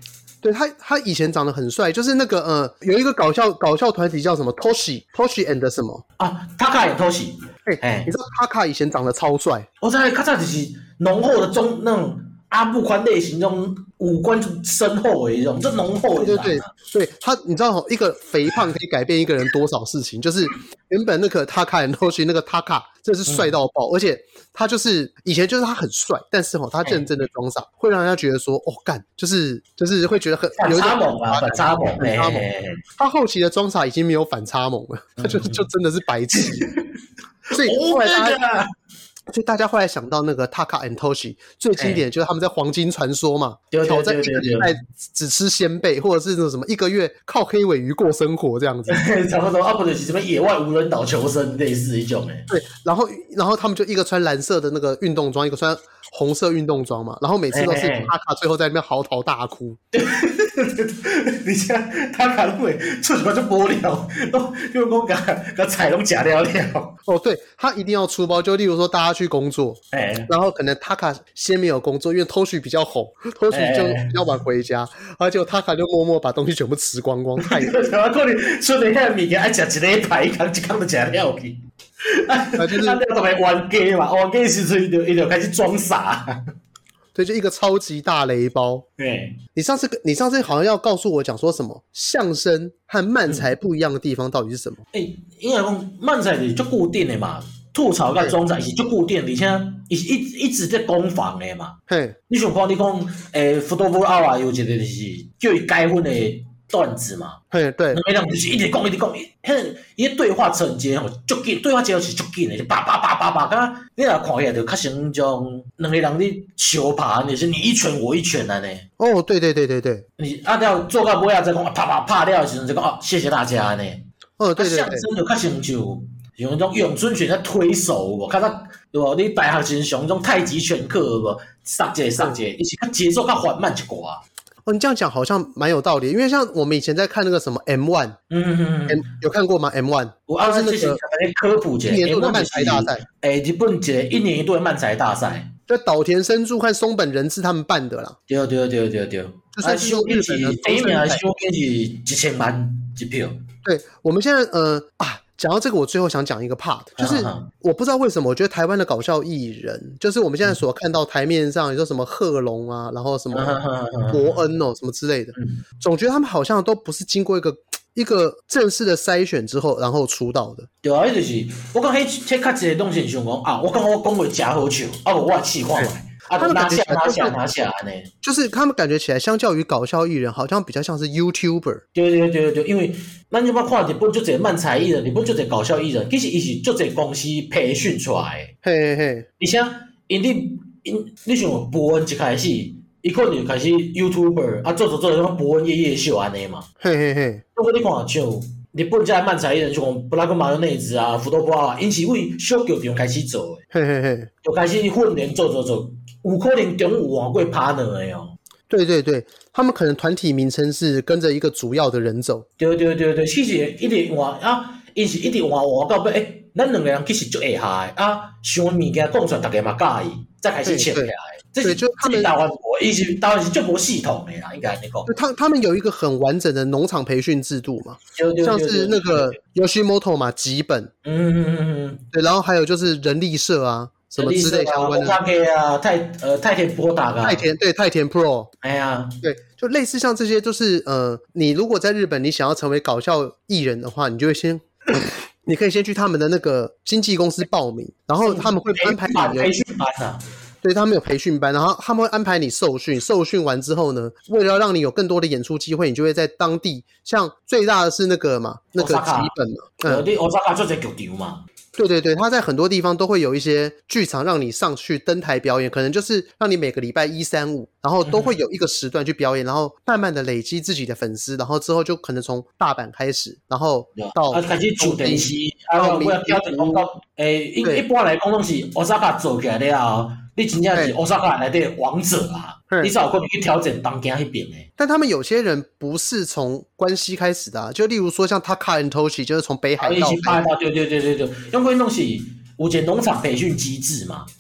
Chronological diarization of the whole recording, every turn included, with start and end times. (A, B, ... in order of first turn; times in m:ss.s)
0:00.4-0:06.0 A
0:06.2-0:08.1 B
0:07.7-0:09.7 A
0:09.8-0:16.7 B
0:16.2-0:32.4 A
0:23.3-0:23.5 B
0:30.6-0:32.8 B
0:33.0-0:36.7 A
0:35.2-0:35.6 B
0:36.3-0:36.9 B
0:37.5-0:38.7 B
0:37.5-0:38.4 A
0:39.3-0:49.0 A
0:41.8-0:42.0 B
0:43.7-0:44.7 B
0:48.9-0:52.5 B
0:52.5-0:59.8 A
0:57.5-0:58.1 B
0:59.9-1:06.9 B
1:07.1-1:17.8 A
1:09.9-1:10.3 B
1:13.5-1:14.1 B
1:17.4-1:26.4 B
1:22.6-1:23.0 A
1:27.1-1:28.8 A
1:29.0-1:29.4 B
1:29.5-1:34.8 A
1:34.9-1:41.8 B
1:41.9-1:42.2 A
1:42.3-1:47.4 B
1:47.5-1:48.0 A
1:47.9-1:58.8 B
1:59.0-2:00.0 A
2:00.2-2:04.0 B
2:04.4-2:05.1 A
2:04.6-2:14.2 B
2:14.6-2:18.2 A
2:18.3-2:19.0 B
2:18.9-2:21.0 A
2:20.3-2:25.5 B
2:21.9-2:23.0 A
2:25.7-2:28.2 A
2:28.3-2:33.4 B
2:29.6-2:31.2 A
2:33.6-2:43.6 A
2:37.0-2:37.5 B
2:43.3-2:44.4 B
2:44.1-2:50.7 A
2:45.4-2:45.6 B
2:50.8-2:58.1 B
2:55.8-2:57.4 A
2:58.2-3:01.8 A
3:01.9-3:08.5 B
3:08.6-3:09.2 A
3:09.4-3:16.6 B
3:16.8-3:17.4 A
3:17.6-3:23.6 B
3:23.7-3:24.3 A
3:24.4-3:28.3 B
3:28.7-3:32.4 A
3:32.6-3:45.1 B
3:40.6-3:41.1 A
3:41.6-3:42.3 A
3:45.1-3:50.9 A
3:48.2-3:49.4 B
3:51.0-3:52.0 B
3:52.1-3:55.2 A
3:54.2-3:57.4 B
3:57.2-3:58.5 A
3:58.6-3:59.2 B
3:59.2-4:09.5 A
4:08.2-4:10.2 B
4:10.6-4:20.0 A
4:18.8-4:19.3 B
4:19.8-4:21.4 B
4:21.8-4:36.8 A
4:28.0-4:28.3 B
4:34.0-4:44.7 B
4:44.8-4:50.4 A
4:49.8-4:54.3 B